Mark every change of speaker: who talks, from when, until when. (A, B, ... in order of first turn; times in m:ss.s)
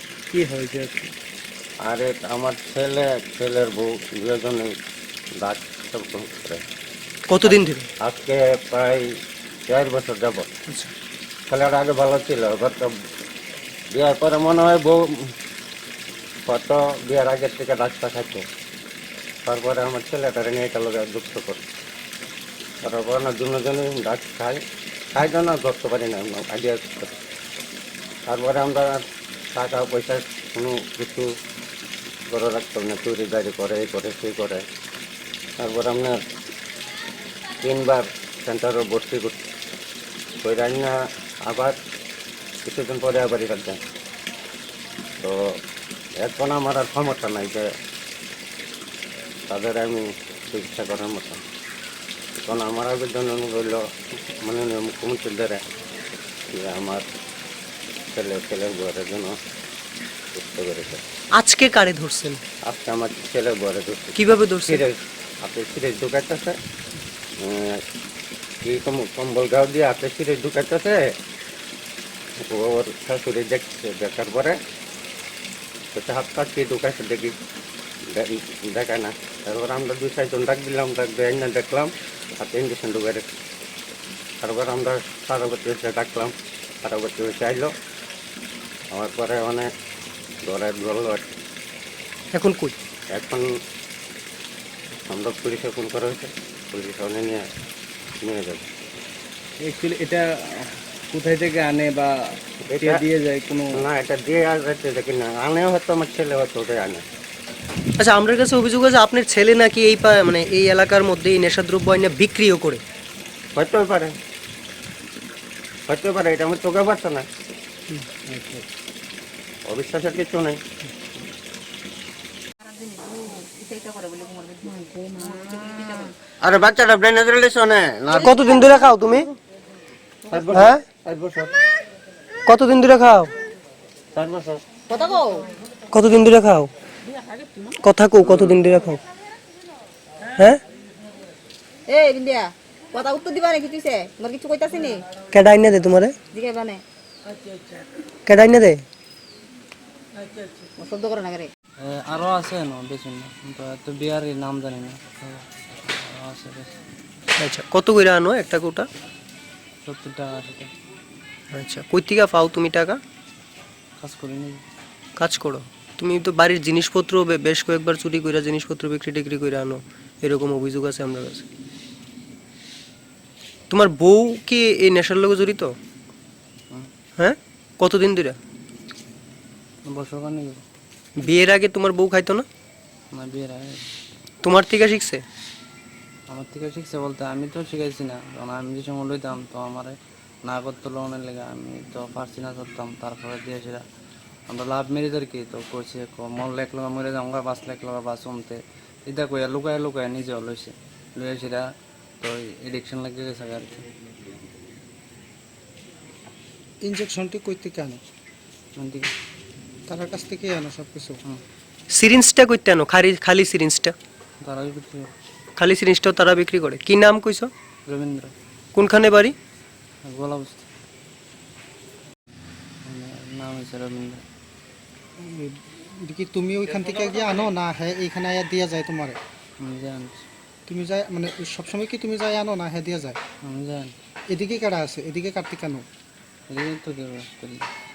0:00.3-0:01.1 A
0:01.8-0:04.7 B
0:05.4-0:06.6 B
0:07.3-0:07.9 C
0:08.0-0:09.0 B
0:09.7-0:10.5 B
0:11.5-0:12.9 B
0:13.9-0:15.0 B
0:16.5-0:18.4 B
0:19.4-0:21.6 B
0:22.8-0:24.6 B
0:25.1-0:27.2 B
0:28.3-0:31.3 B
0:32.3-0:34.6 B
0:35.6-0:36.2 B
0:37.6-0:39.4 B
0:40.4-0:40.9 B
0:41.5-0:41.8 B
0:42.6-0:43.8 B
0:46.2-0:47.7 B
0:49.5-0:51.4 B
0:52.4-0:55.6 B
0:56.5-0:57.0 B
0:58.1-0:59.4 B
1:00.4-1:01.0 B
1:01.4-1:02.4 C
1:02.6-1:06.6 B
1:04.1-1:04.8 C
1:07.4-1:07.8 B
1:08.6-1:11.0 B
1:12.4-1:14.6 B
1:15.9-1:17.3 B
1:18.1-1:23.2 B
1:24.4-1:27.7 B
1:28.9-1:29.7 B
1:30.4-1:31.2 B
1:32.3-1:32.8 C
1:33.1-1:33.5 B
1:35.1-1:37.4 B
1:38.2-1:38.6 B
1:39.6-1:40.3 A
1:41.1-1:42.1 A
1:42.6-1:43.0 B
1:42.8-1:43.8 A
1:43.7-1:47.0 B
1:48.0-1:52.8 C
1:53.6-1:54.2 B
1:55.9-1:57.3 B
1:58.3-1:58.6 D
1:59.7-2:00.6 B
2:02.6-2:06.2 E
2:06.4-2:08.5 B
2:08.1-2:09.3 C
2:10.3-2:11.5 B
2:10.5-2:10.8 C
2:12.5-2:13.3 C
2:14.1-2:14.6 B
2:14.9-2:15.5 E
2:15.9-2:16.7 C
2:17.8-2:19.0 C
2:20.4-2:20.6 C
2:21.9-2:25.0 E
2:25.3-2:26.2 C
2:26.3-2:26.8 E
2:28.3-2:28.8 C
2:30.8-2:31.5 E
2:31.8-2:36.8 D
2:37.4-2:38.9 C
2:39.8-2:40.7 D
2:41.5-2:43.0 C
2:44.0-2:44.6 D
2:45.2-2:51.4 C
2:53.7-2:55.7 C
2:57.2-2:58.4 C
2:59.9-3:00.6 D
3:01.2-3:02.5 C
3:03.1-3:03.8 D
3:04.4-3:05.2 C
3:06.3-3:13.8 D
3:14.5-3:21.6 D
3:22.2-3:23.9 D
3:26.8-3:28.0 F
3:28.8-3:29.1 D
3:29.9-3:31.2 F
3:31.9-3:34.0 C
3:34.4-3:35.1 D
3:35.6-3:37.5 C
3:37.9-3:38.3 D
3:38.8-3:39.4 C
3:40.1-3:40.7 D
3:42.8-3:44.2 D
3:45.2-3:49.2 F
3:49.6-3:50.2 D
3:50.7-3:53.2 F
3:53.4-3:53.9 D
3:54.3-3:55.8 F
3:56.5-3:57.7 D